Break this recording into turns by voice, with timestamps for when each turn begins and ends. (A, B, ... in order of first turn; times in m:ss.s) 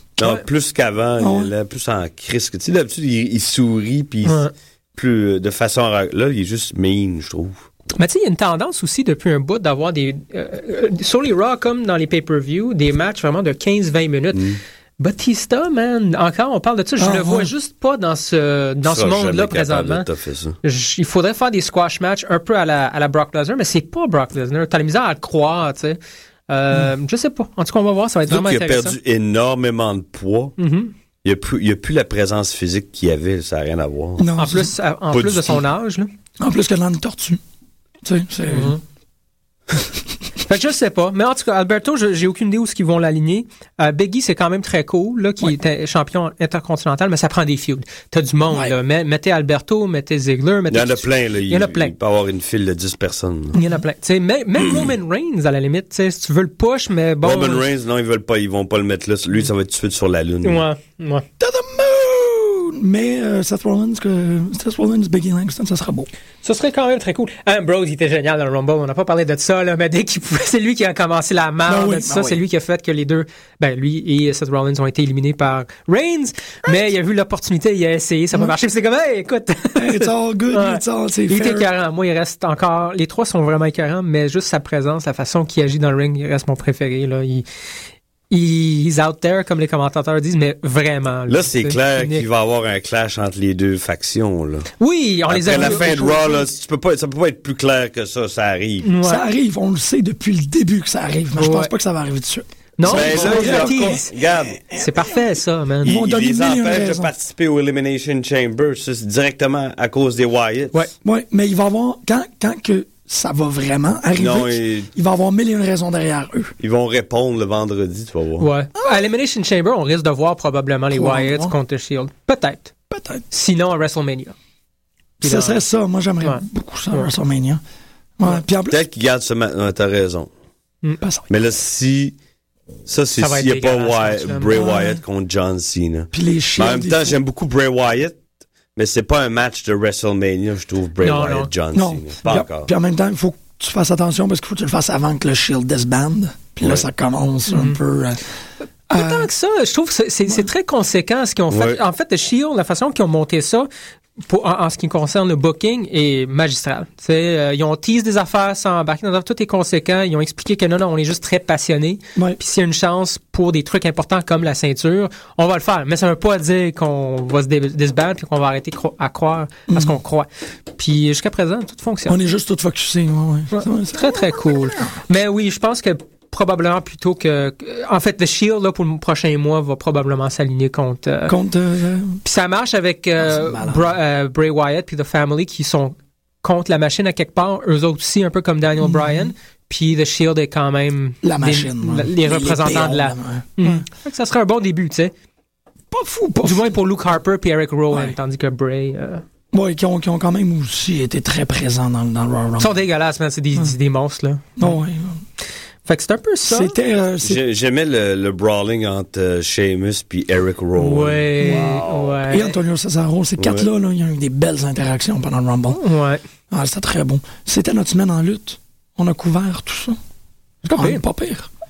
0:00.2-0:04.5 A
0:01.2-0:01.5 B
0:04.2-0:04.5 C
0:05.0-0:07.6 A
0:08.0-0:14.4 C
0:14.3-0:14.6 A
0:15.0-0:20.1 C
0:17.0-0:17.5 B
0:18.8-0:20.6 A
0:20.6-0:29.0 C
0:28.3-0:30.6 A
0:30.6-0:30.9 C
0:31.2-0:34.3 A
0:34.2-0:34.7 B
0:34.4-0:36.1 C
0:35.1-0:35.6 A
0:36.4-0:37.4 B
0:38.0-0:38.8 B
0:38.5-0:38.8 C
0:40.4-0:51.9 C
0:50.7-0:53.6 A
0:53.5-0:57.6 C
0:57.2-1:00.6 A
1:00.4-1:01.2 C
1:01.4-1:06.1 B
1:06.4-1:27.4 C
1:11.7-1:12.4 B
1:19.8-1:21.7 B
1:28.3-1:32.2 C
1:31.3-1:34.7 A
1:34.8-1:36.2 C
1:35.3-1:38.9 A
1:35.5-1:36.4 B
1:38.8-1:39.2 C
1:39.0-1:45.2 B
1:41.4-1:41.7 C
1:42.8-1:44.1 C
1:42.8-1:44.6 A
1:44.7-1:45.9 C
1:45.8-1:47.1 B
1:45.8-1:50.8 A
1:51.0-1:56.5 B
1:54.2-1:54.9 A
1:56.6-1:58.5 A
1:58.4-2:02.7 C
2:00.9-2:01.6 B
2:02.9-2:03.2 B
2:03.3-2:04.4 C
2:05.2-2:05.6 C
2:05.2-2:07.6 B
2:06.2-2:07.1 C
2:08.2-2:08.8 B
2:08.7-2:10.3 A
2:11.0-2:11.3 B
2:11.3-2:12.2 A
2:12.9-2:18.2 A
2:13.2-2:14.7 C
2:14.5-2:15.0 B
2:16.1-2:17.2 B
2:18.8-2:22.7 A
2:21.0-2:21.5 C
2:21.7-2:28.2 B
2:27.5-2:27.8 C
2:28.9-2:29.3 B
2:28.9-2:33.7 C
2:31.5-2:31.8 A
2:34.2-2:52.2 C
2:49.7-2:50.0 B
2:52.1-2:54.9 B
2:53.5-3:01.4 C
3:01.3-3:02.2 B
3:02.2-3:15.1 C
3:03.2-3:03.9 B
3:08.8-3:09.3 B
3:11.2-3:13.9 B
3:15.9-3:16.8 B
3:16.4-3:19.2 C
3:17.9-3:18.2 B
3:19.5-3:22.7 B
3:22.6-3:24.7 C
3:24.6-3:25.2 B
3:25.9-3:26.7 C
3:26.4-3:27.4 B
3:27.2-3:32.0 A
3:30.8-3:32.6 C
3:31.4-3:35.8 B
3:33.4-3:33.7 A
3:35.7-3:36.2 C
3:36.5-3:40.0 B
3:40.6-3:41.5 B
3:40.8-3:41.0 C